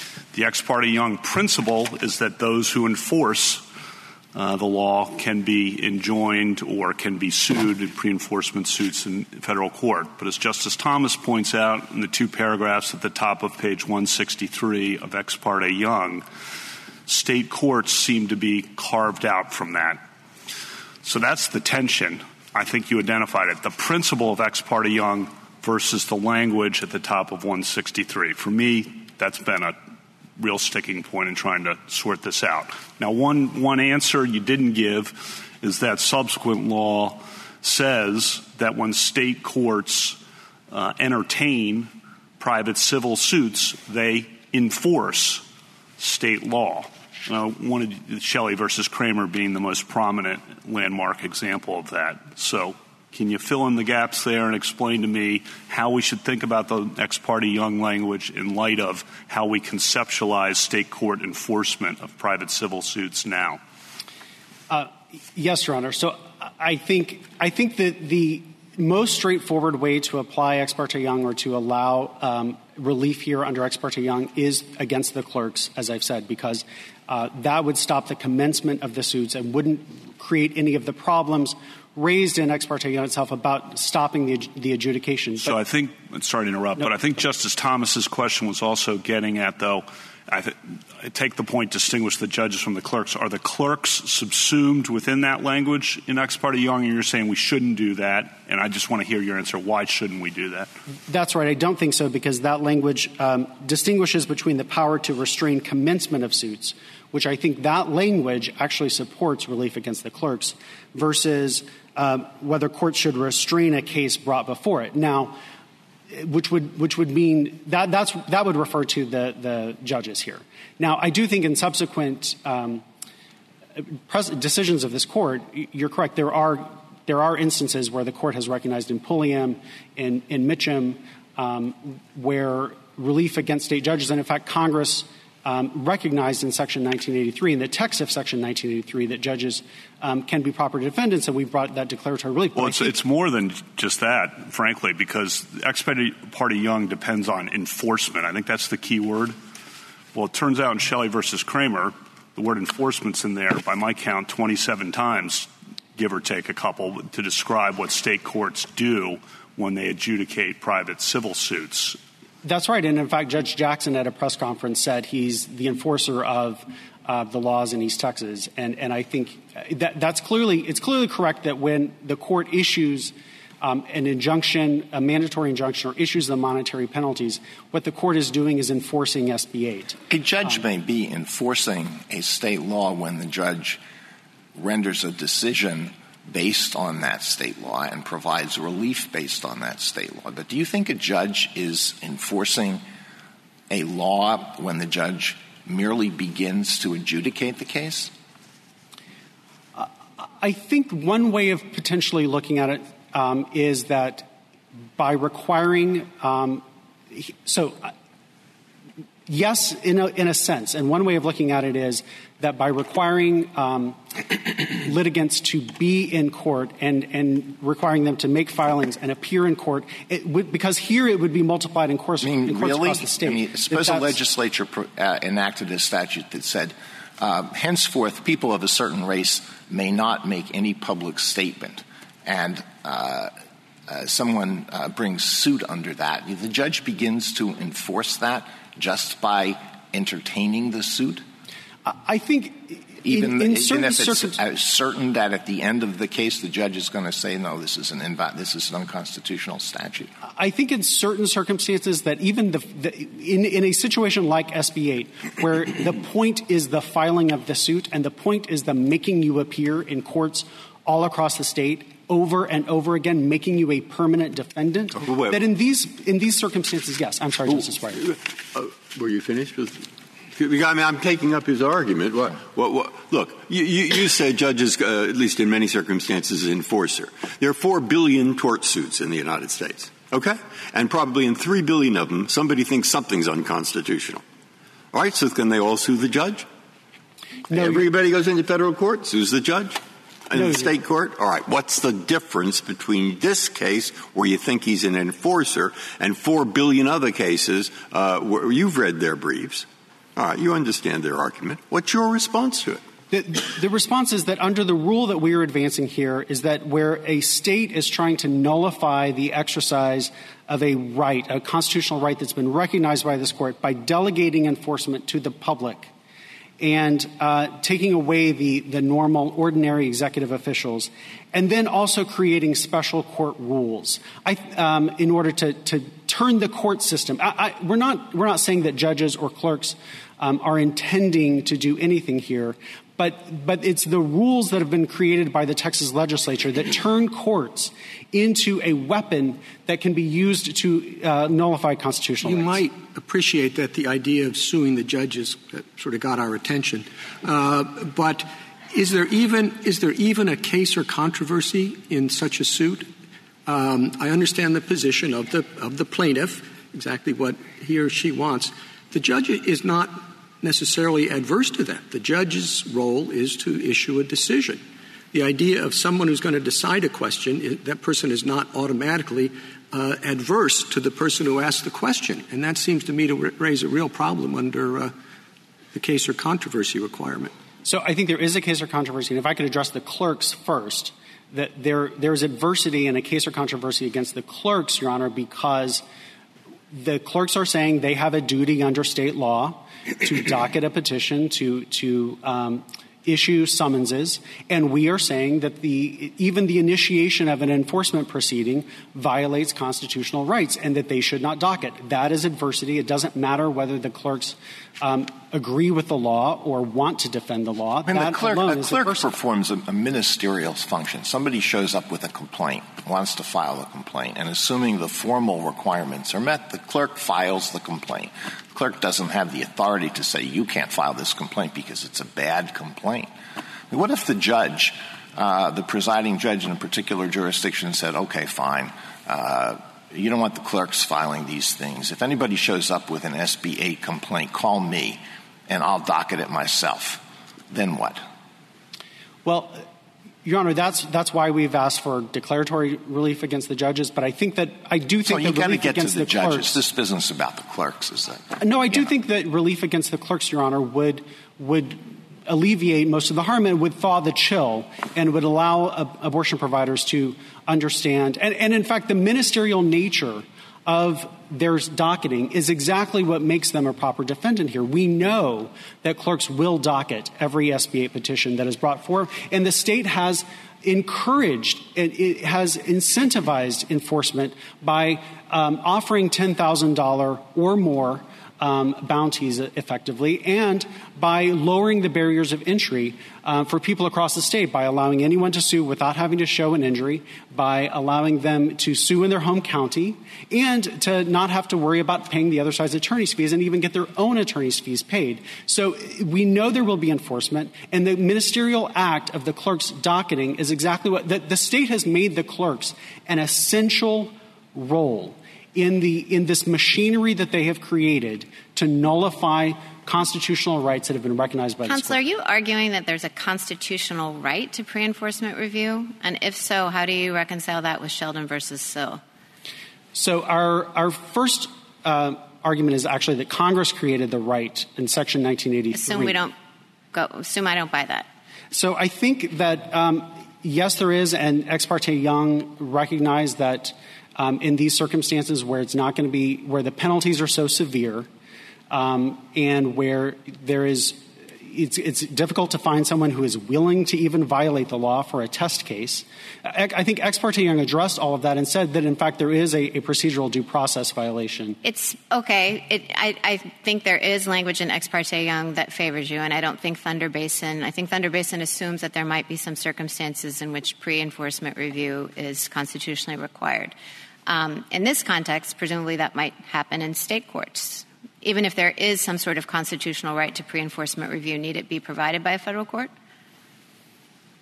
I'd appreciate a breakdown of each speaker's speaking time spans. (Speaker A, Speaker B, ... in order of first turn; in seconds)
Speaker A: 0.3-3.6, 4.3-16.2, 17.1-20.0, 21.0-29.8, 30.4-40.2, 40.7-45.5, 46.0-63.6, 85.4-100.7, 142.6-149.4, 150.1-162.0
Speaker B: 64.7-85.5, 101.1-115.4, 116.1-122.8, 123.8-142.9, 162.4-180.0, 200.4-204.3, 204.9-207.9, 209.3-224.2, 241.8-244.4, 250.3-268.0, 287.5-287.8, 290.4-290.7, 303.1-315.9, 316.6-342.6, 377.6-385.8, 386.7-409.0, 439.2-439.6, 440.2-446.6, 448.4-512.0, 519.9-526.2, 528.5-538.1, 538.7-551.6
Speaker C: 180.1-183.8, 184.6-192.8, 193.7-198.1, 222.2-233.3, 233.9-241.2, 243.0-250.1, 407.9-423.1, 423.7-438.0, 445.0-448.4
Speaker D: 264.9-265.4, 267.9-284.2, 284.9-286.5, 287.5-302.8
Speaker E: 342.2-352.9, 353.5-364.6, 365.1-374.9, 375.7-377.3
Speaker F: 511.6-519.0, 525.7-526.3, 526.9-528.1, 551.6-563.8, 564.3-572.9